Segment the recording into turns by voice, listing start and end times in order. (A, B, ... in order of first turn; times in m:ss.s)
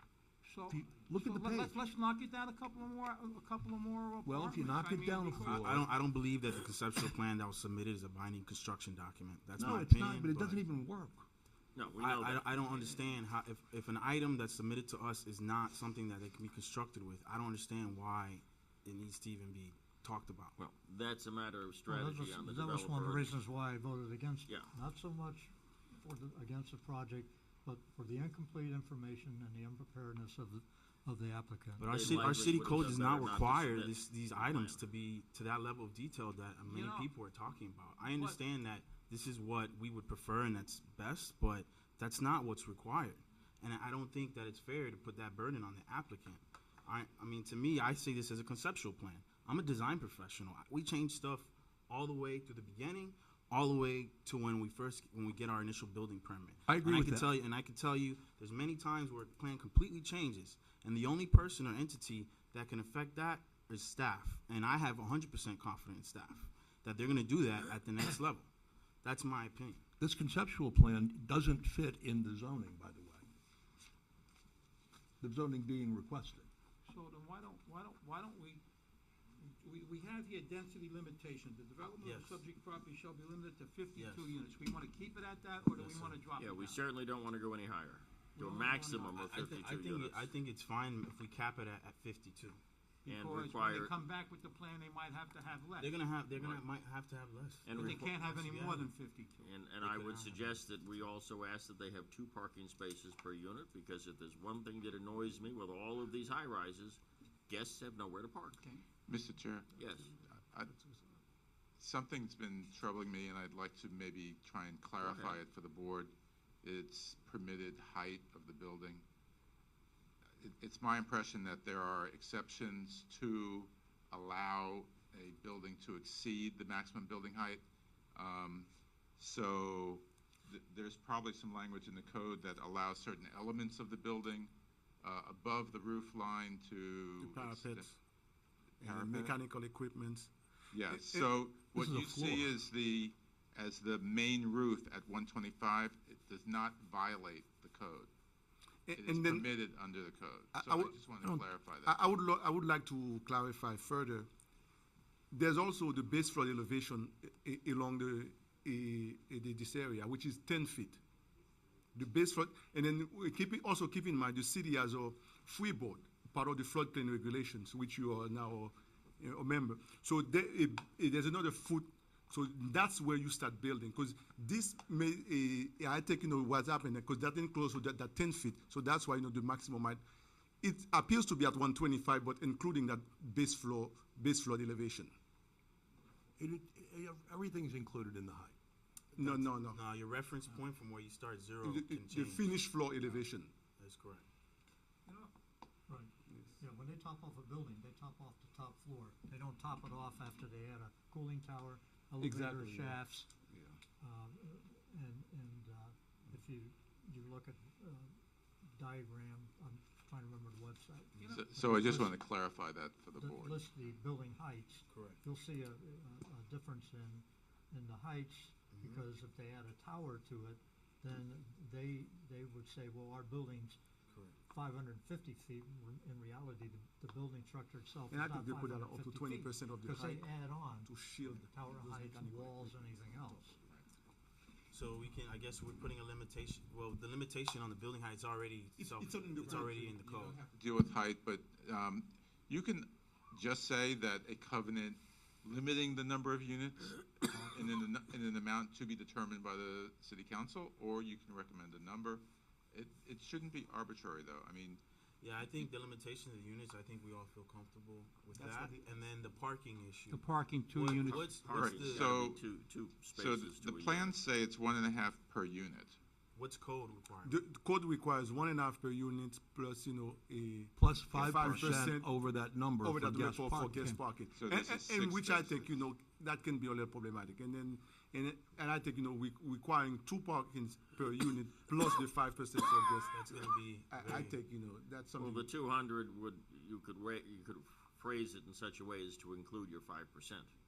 0:00.4-0:05.6 A
0:00.7-0:01.8 B
0:04.2-0:06.0 B
0:05.5-0:10.6 C
0:09.6-0:11.3 B
0:11.8-0:13.0 D
0:12.0-0:20.6 C
0:20.6-0:23.4 D
0:21.9-0:32.5 E
0:31.8-1:08.5 C
0:31.8-0:34.8 D
0:36.6-0:37.1 A
0:38.0-0:38.4 A
0:56.7-0:57.4 B
1:09.0-1:09.8 C
1:10.0-1:13.3 B
1:15.2-1:16.5 B
1:16.9-1:18.6 A
1:19.4-1:26.8 A
1:22.0-1:22.4 C
1:23.9-1:24.4 C
1:25.7-1:26.2 C
1:26.4-1:30.3 D
1:28.4-1:29.1 E
1:28.9-1:32.6 C
1:33.0-1:36.0 A
1:33.1-1:33.9 D
1:35.8-1:38.9 C
1:37.6-1:38.2 D
1:37.8-1:39.5 A
1:39.4-1:48.6 D
1:39.8-1:40.6 C
1:49.1-1:49.7 F
1:49.8-1:50.1 D
1:51.8-1:59.0 F
1:55.0-1:55.4 D
2:00.4-2:07.6 F
2:08.2-2:17.9 F
2:17.2-2:18.0 G
2:18.8-2:20.3 G
2:18.8-2:19.4 F
2:20.7-2:28.1 F
2:20.9-2:21.3 G
2:21.8-2:22.5 B
2:28.9-2:29.5 G
2:29.0-2:32.1 F
2:30.6-2:31.0 G
2:31.8-2:34.3 G
2:35.3-2:41.0 G
2:41.9-3:00.0 G
3:00.6-3:05.1 G
3:06.4-3:08.6 B
3:09.2-3:09.8 G
3:09.2-3:12.6 C
3:11.6-3:13.5 G
3:13.8-3:14.3 C
3:15.1-3:15.3 A
3:15.9-3:23.3 E
3:22.2-3:23.0 B
3:23.5-3:23.8 B
3:24.0-3:28.1 E
3:28.7-3:32.2 E
3:31.2-3:33.6 F
3:33.2-3:43.8 E
3:34.9-3:35.2 C
3:38.7-3:39.0 C
3:44.5-3:53.6 E
3:48.1-3:53.3 G
3:54.7-4:00.4 C
3:58.8-3:59.9 G
4:00.0-4:14.8 F
4:15.2-4:22.1 C
4:18.4-4:18.8 G
4:20.1-4:21.3 A
4:21.0-4:24.2 D
4:21.5-4:22.4 F
4:23.1-4:26.0 F
4:26.4-4:27.4 C
4:27.2-4:32.1 G
4:30.8-4:34.0 B
4:32.8-4:43.4 G
4:34.4-4:35.7 F
4:43.1-4:44.4 C
4:43.9-4:45.5 G
4:45.2-4:50.5 D